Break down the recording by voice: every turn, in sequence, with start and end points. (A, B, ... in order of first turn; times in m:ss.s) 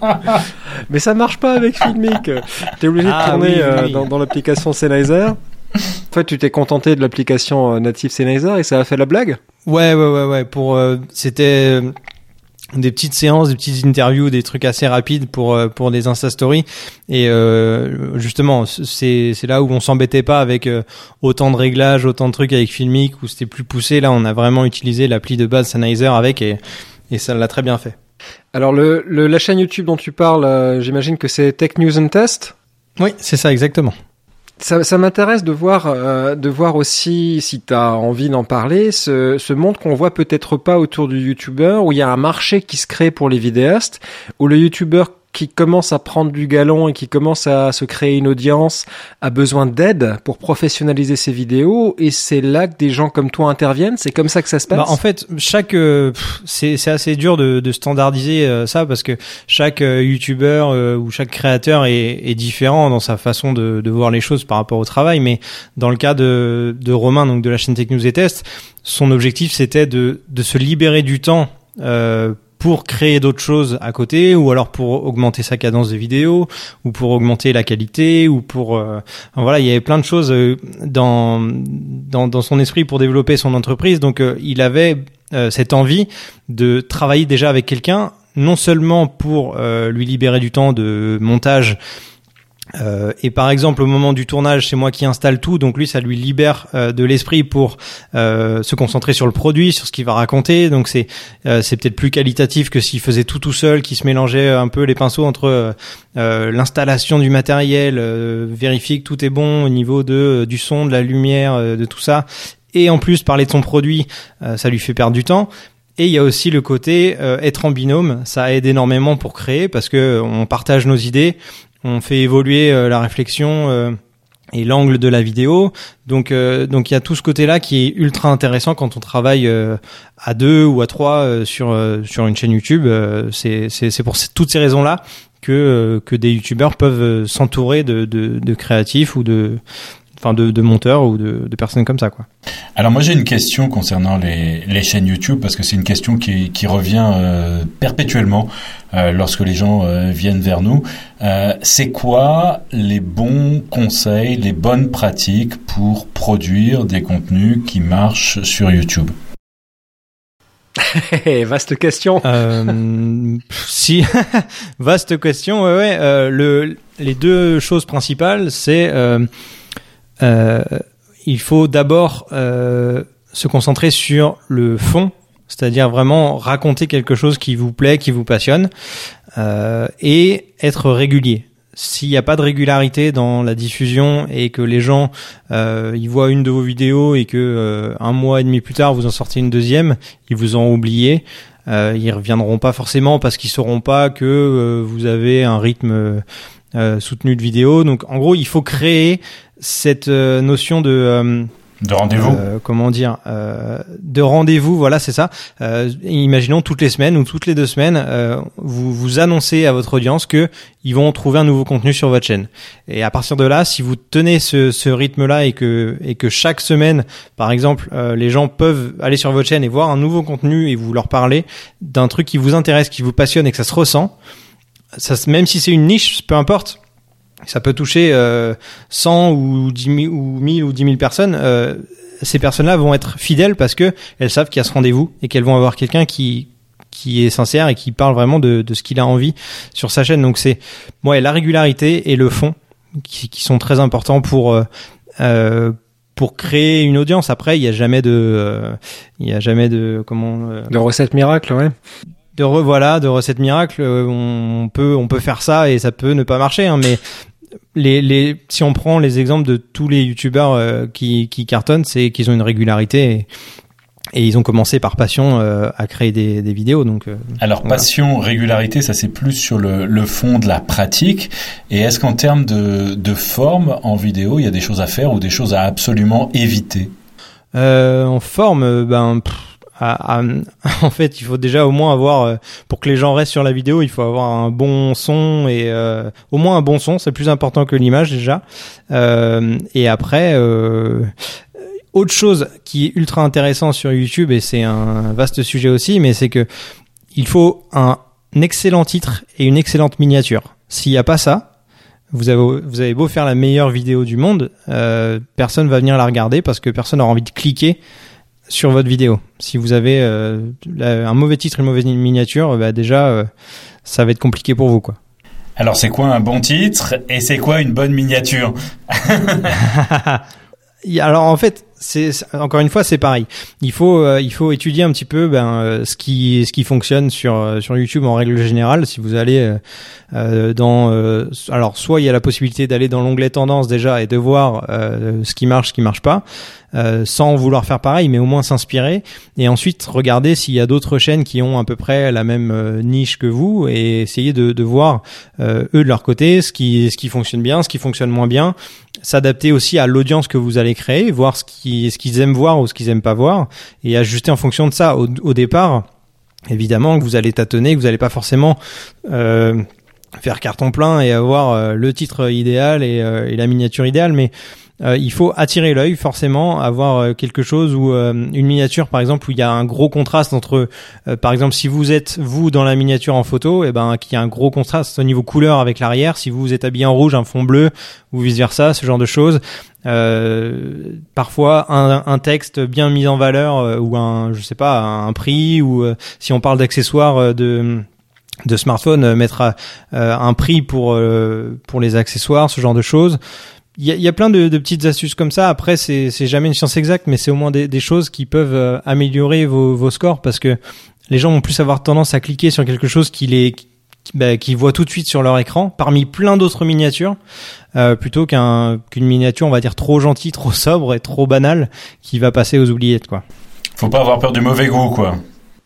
0:00.9-0:05.4 A
0:03.0-0:04.1 B
0:06.1-0:09.4 A
0:09.6-0:11.9 B
0:12.7-0:27.9 B
0:28.5-0:32.5 A
0:33.0-0:33.9 B
0:34.6-0:54.9 A
0:54.7-1:31.8 B
1:32.8-2:04.0 B
2:04.5-2:19.6 B
2:20.2-2:22.2 B
2:22.8-2:39.1 C
2:40.8-2:42.4 A
2:42.2-2:49.3 B
2:50.2-2:58.7 B
2:59.4-3:16.2 B
3:16.7-3:21.5 B
3:21.8-3:22.4 C
3:22.2-3:44.1 B
3:45.0-3:46.8 B
3:47.4-4:04.7 B
4:05.2-4:10.7 B
4:10.7-4:11.7 A
4:12.4-4:17.0 B
4:17.7-4:23.3 B
4:24.1-4:27.8 B
4:27.4-4:36.9 C
4:37.5-4:51.1 B
4:51.9-4:56.5 B
4:57.1-5:01.5 B
5:02.1-5:07.8 B
5:08.5-5:13.3 B
5:13.8-5:15.0 B
5:15.6-5:19.6 C
5:19.6-5:20.2 B
5:20.8-5:29.6 B
5:30.1-5:55.8 B
5:56.5-5:59.7 B
6:00.2-6:04.3 B
6:04.8-6:27.8 B
6:28.5-6:33.2 B
6:33.8-6:40.6 B
6:41.1-6:47.2 B
6:47.8-6:53.2 B
6:53.8-6:55.2 C